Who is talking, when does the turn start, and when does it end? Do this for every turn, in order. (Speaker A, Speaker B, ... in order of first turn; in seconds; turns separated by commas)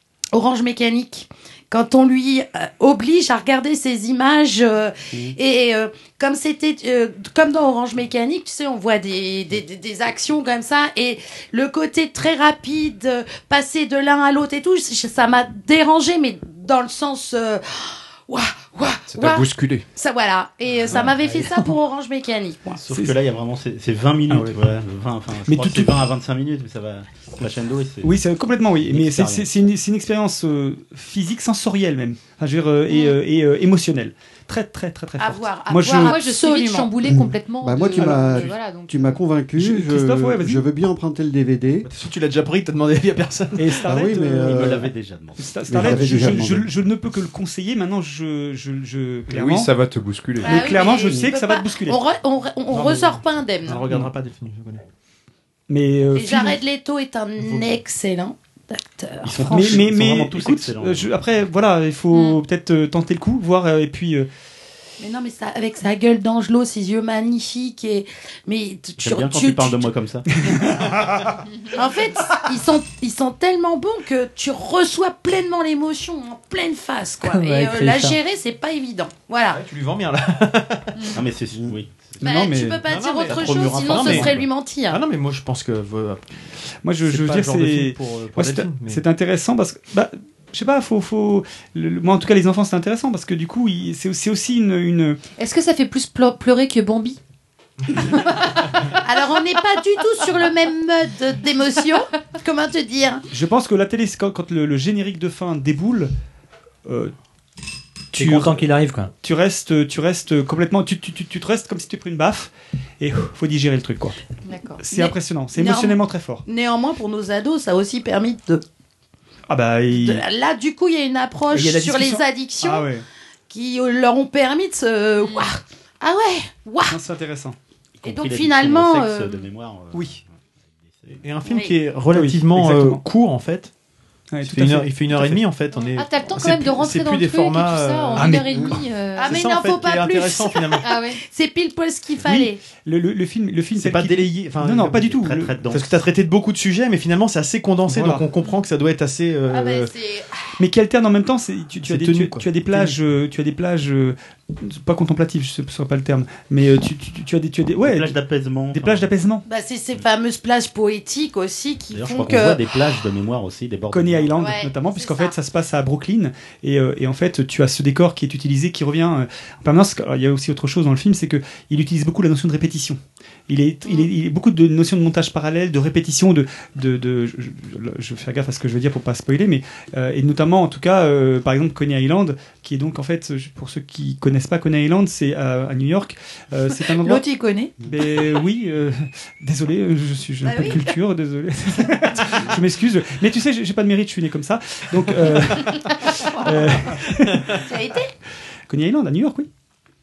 Speaker A: 0.3-22.8, Speaker B: 19.1-19.9, Speaker C: 22.8-28.2, Speaker D: 22.9-23.1, Speaker D: 24.3-24.6, Speaker D: 25.5-26.0, Speaker D: 28.0-36.2, Speaker C: 28.9-29.5, Speaker A: 35.2-36.9, Speaker E: 36.0-39.2, Speaker F: 37.0-41.9, Speaker D: 38.0-38.4, Speaker D: 39.6-40.7, Speaker G: 41.9-43.8, Speaker D: 43.6-44.8, Speaker F: 43.9-44.9, Speaker C: 44.4-46.3, Speaker D: 45.4-49.7, Speaker F: 45.7-46.7, Speaker B: 49.3-50.7, Speaker A: 50.4-53.9, Speaker D: 50.4-52.0, Speaker G: 52.7-54.8, Speaker D: 55.7-56.6, Speaker A: 56.1-59.9, Speaker G: 57.4-57.7, Speaker C: 59.2-61.1, Speaker D: 59.4-64.3, Speaker A: 65.0-69.9, Speaker C: 69.0-70.3, Speaker D: 70.4-71.3, Speaker A: 71.7-79.6, Speaker H: 77.2-78.2, Speaker G: 79.5-81.2, Speaker C: 81.0-84.5, Speaker A: 82.2-85.0, Speaker D: 82.2-82.8, Speaker G: 82.8-84.4, Speaker G: 84.9-86.5, Speaker D: 86.8-95.2, Speaker G: 87.0-89.0, Speaker E: 95.4-97.2, Speaker E: 97.9-98.9, Speaker A: 99.0-103.2, Speaker D: 103.3-106.1, Speaker D: 106.9-107.1, Speaker D: 108.1-108.7, Speaker H: 108.1-109.1, Speaker D: 109.2-114.2, Speaker E: 114.5-114.8, Speaker D: 114.8-116.4, Speaker A: 114.9-118.6, Speaker D: 119.5-120.2, Speaker A: 119.9-122.9, Speaker D: 121.5-123.0, Speaker A: 123.5-127.0, Speaker D: 126.9-127.6, Speaker C: 128.0-130.2, Speaker A: 128.1-129.4, Speaker D: 129.9-130.2, Speaker G: 131.2-133.7, Speaker A: 131.5-131.8, Speaker D: 132.1-133.0, Speaker D: 134.3-135.4, Speaker G: 134.4-141.0, Speaker E: 135.9-139.4, Speaker D: 138.2-138.8, Speaker A: 139.2-142.6, Speaker E: 140.8-141.2, Speaker D: 142.2-145.6, Speaker G: 143.8-149.9, Speaker C: 145.2-145.9, Speaker D: 147.9-148.2, Speaker A: 149.5-150.3, Speaker D: 150.6-158.1, Speaker G: 151.8-153.0, Speaker C: 157.8-159.1, Speaker D: 158.7-159.4, Speaker A: 159.5-162.6, Speaker C: 161.9-164.3, Speaker D: 163.9-187.2, Speaker A: 164.4-165.3, Speaker E: 187.1-187.7, Speaker D: 187.8-197.6, Speaker A: 190.4-190.9, Speaker A: 197.6-198.1, Speaker D: 198.7-199.5